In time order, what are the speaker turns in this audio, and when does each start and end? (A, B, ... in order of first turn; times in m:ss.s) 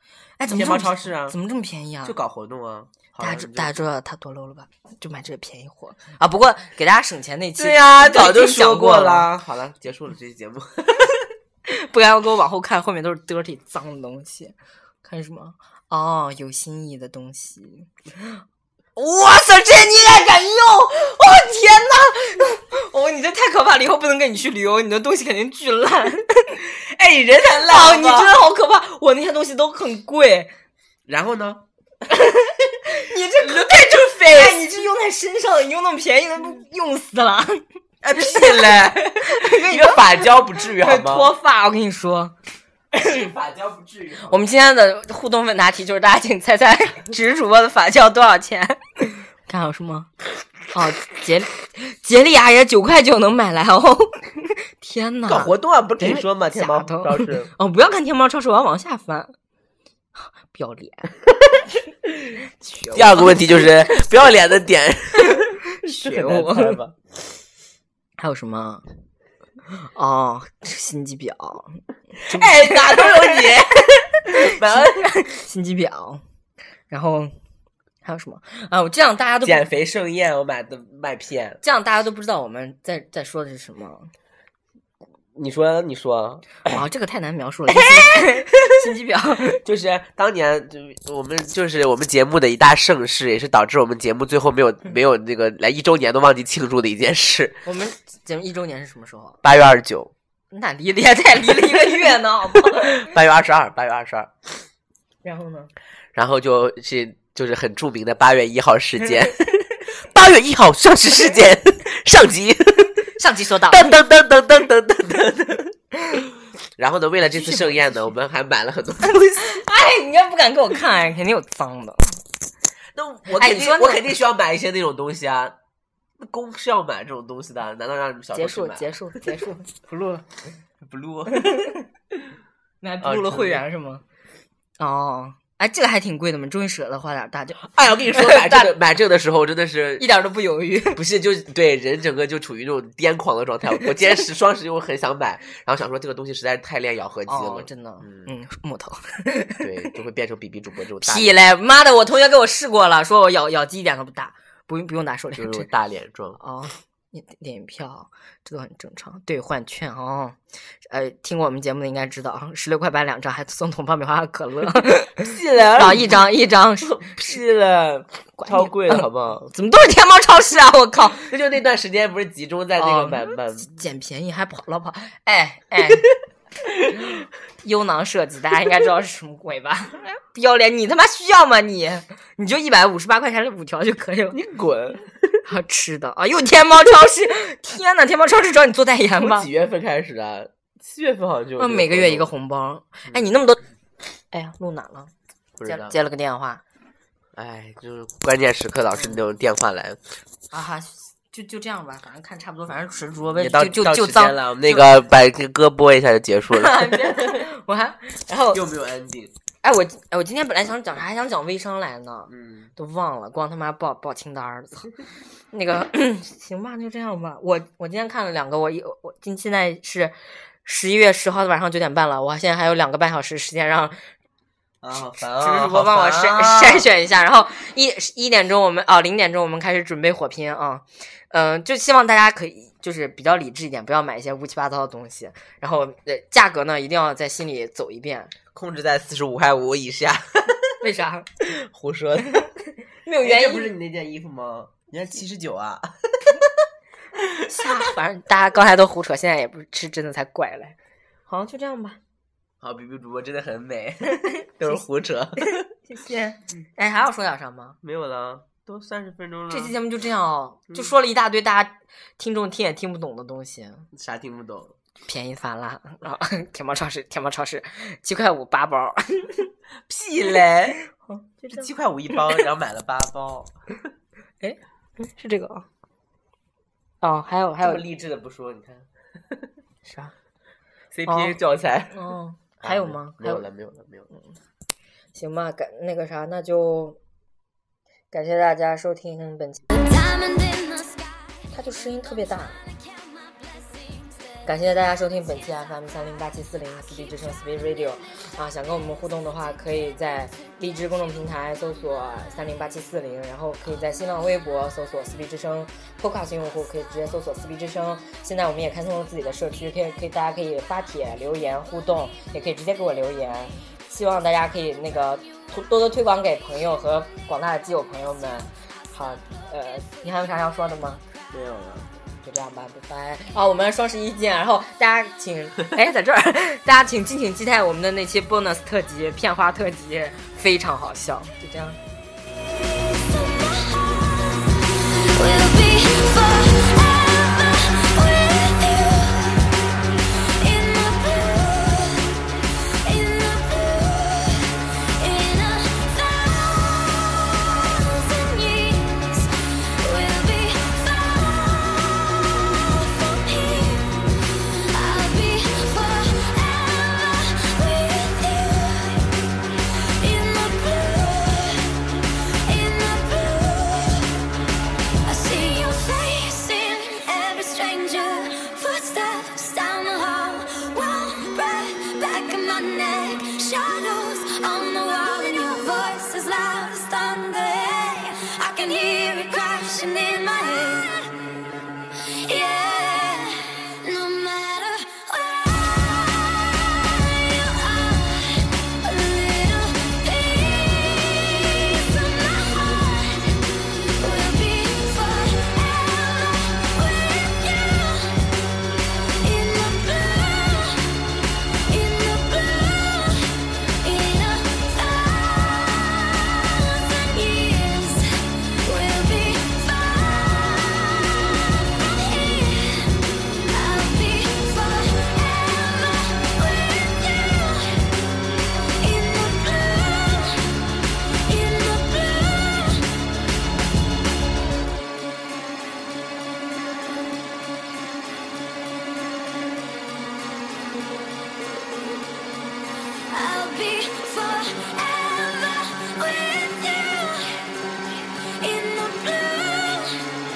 0:00.4-0:02.2 A
0:00.5-0:01.4 B
0:02.0-0:03.8 B
0:03.2-0:09.3 A
0:07.6-0:11.3 B
0:11.7-0:18.4 A
0:19.0-0:26.6 A
0:26.6-0:28.3 B
0:27.6-0:30.5 A
0:31.1-0:31.6 B
0:32.1-0:37.6 A
0:32.9-0:34.6 B
0:38.0-0:41.3 B
0:38.2-0:42.3 A
0:43.0-0:43.3 A
0:43.0-0:44.4 B
0:44.3-0:50.1 A
0:50.7-0:59.3 A
0:55.3-0:57.5 B
1:00.2-1:01.1 A
1:02.4-1:03.8 A
1:02.9-1:07.0 B
1:05.2-1:06.8 A
1:08.2-1:08.8 A
1:09.9-1:13.5 A
1:12.2-1:15.1 B
1:14.3-1:16.2 A
1:16.9-1:17.3 A
1:18.0-1:19.6 A
1:19.4-1:21.6 B
1:21.6-1:24.1 A
1:25.3-1:26.7 B
1:26.6-1:29.6 A
1:27.7-1:28.7 B
1:29.5-1:37.6 B
1:37.6-1:39.4 A
1:39.4-1:40.1 B
1:40.5-1:43.1 A
1:42.7-1:44.3 B
1:45.2-1:45.7 A
1:46.1-1:53.1 B
1:53.2-1:53.9 A
1:53.7-1:55.8 B
1:56.8-1:59.6 B
1:57.2-1:58.1 A
1:59.4-2:02.2 A
2:02.9-2:05.6 B
2:03.3-2:04.1 A
2:06.2-2:09.3 B
2:08.3-2:10.2 A
2:10.8-2:11.8 B
2:11.3-2:11.8 A
2:12.8-2:14.0 A
2:13.0-2:13.6 B
2:14.8-2:18.7 A
2:17.6-2:20.0 B
2:20.0-2:21.0 A
2:20.9-2:28.3 B
2:27.3-2:29.7 A
2:29.6-2:31.3 B
2:31.0-2:35.7 A
2:35.4-2:36.4 B
2:36.4-2:40.4 A
2:40.9-2:47.0 A
2:45.2-2:46.2 B
2:46.8-2:49.5 B
2:48.4-2:51.3 A
2:51.3-2:53.7 B
2:52.8-2:56.1 A
2:56.6-2:57.1 B
2:56.9-3:04.4 A
3:04.3-3:05.1 B
3:05.4-3:09.5 A
3:09.2-3:12.3 B
3:11.6-3:13.6 A
3:14.3-3:15.1 A
3:15.6-3:16.0 B
3:15.6-3:16.6 A
3:17.4-3:20.0 B
3:20.5-3:24.9 A
3:23.4-3:27.4 B
3:26.5-3:28.6 A
3:28.5-3:29.3 B
3:29.6-3:34.9 A
3:32.3-3:32.7 B
3:35.5-3:44.0 A
3:44.8-3:46.9 B
3:45.3-3:58.3 A
3:58.5-4:00.8 B
4:00.8-4:01.4 A
4:01.4-4:02.4 B
4:02.2-4:02.5 A
4:03.0-4:03.7 A
4:03.2-4:06.6 B
4:07.2-4:07.9 B
4:07.4-4:10.8 A
4:11.3-4:12.0 A
4:12.6-4:15.7 B
4:14.1-4:14.7 A
4:15.4-4:17.8 A
4:17.8-4:19.7 B
4:19.5-4:23.9 A
4:23.9-4:24.7 B
4:25.0-4:29.5 A
4:29.9-4:30.8 B
4:30.9-4:32.4 A
4:31.5-4:33.5 B
4:34.4-4:35.6 A
4:37.0-4:37.8 A
4:37.6-4:39.5 B
4:39.8-4:40.1 A
4:40.9-4:42.1 B
4:41.1-4:41.4 A
4:41.9-4:43.5 A
4:42.6-4:44.1 B
4:45.1-4:47.0 A
4:48.1-4:49.6 A
4:49.7-4:51.3 C
4:51.5-4:52.6 A
4:54.4-5:21.0 A
5:21.3-5:21.9 B
5:22.2-5:31.8 A
5:32.6-5:42.2 C
5:42.7-5:59.1 C
5:59.8-6:01.8 C
6:02.4-6:04.2 C
6:05.0-6:21.1 C
6:22.2-6:33.4 C
6:33.9-6:38.3 C
6:39.1-6:41.0 C
6:41.7-6:52.9 C
6:53.5-6:57.8 C
6:58.8-7:00.6 C
7:01.2-7:02.9 C
7:13.1-7:17.5 C
7:18.4-7:20.0 C